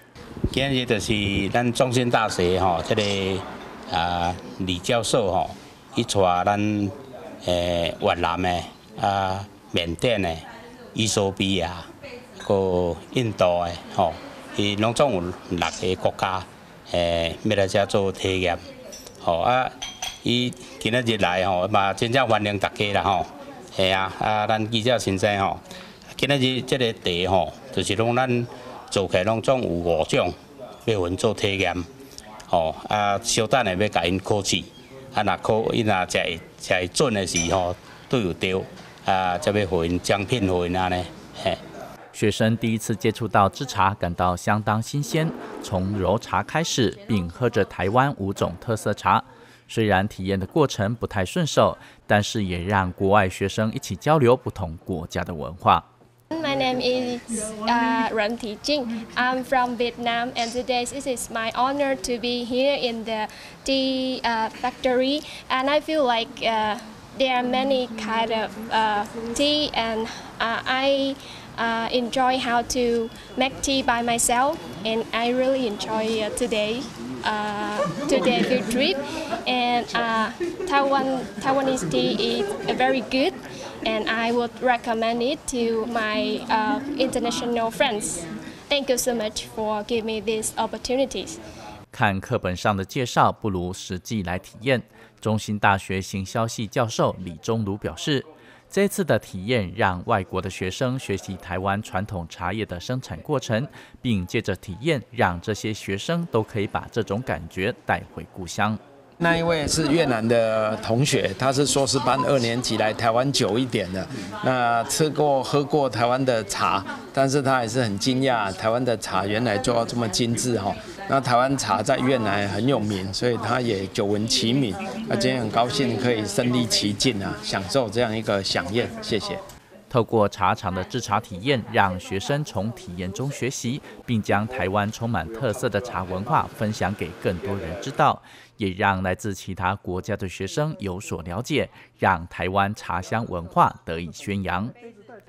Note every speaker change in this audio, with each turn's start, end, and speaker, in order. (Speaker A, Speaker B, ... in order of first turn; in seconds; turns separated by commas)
Speaker A: 0.5-11.9, Speaker A: 12.4-18.6, Speaker A: 19.2-30.3, Speaker A: 30.9-31.9, Speaker A: 32.5-41.6, Speaker B: 42.1-55.8, Speaker C: 56.3-91.4, Speaker B: 91.9-108.8, Speaker D: 109.2-129.4, Speaker B: 129.9-144.7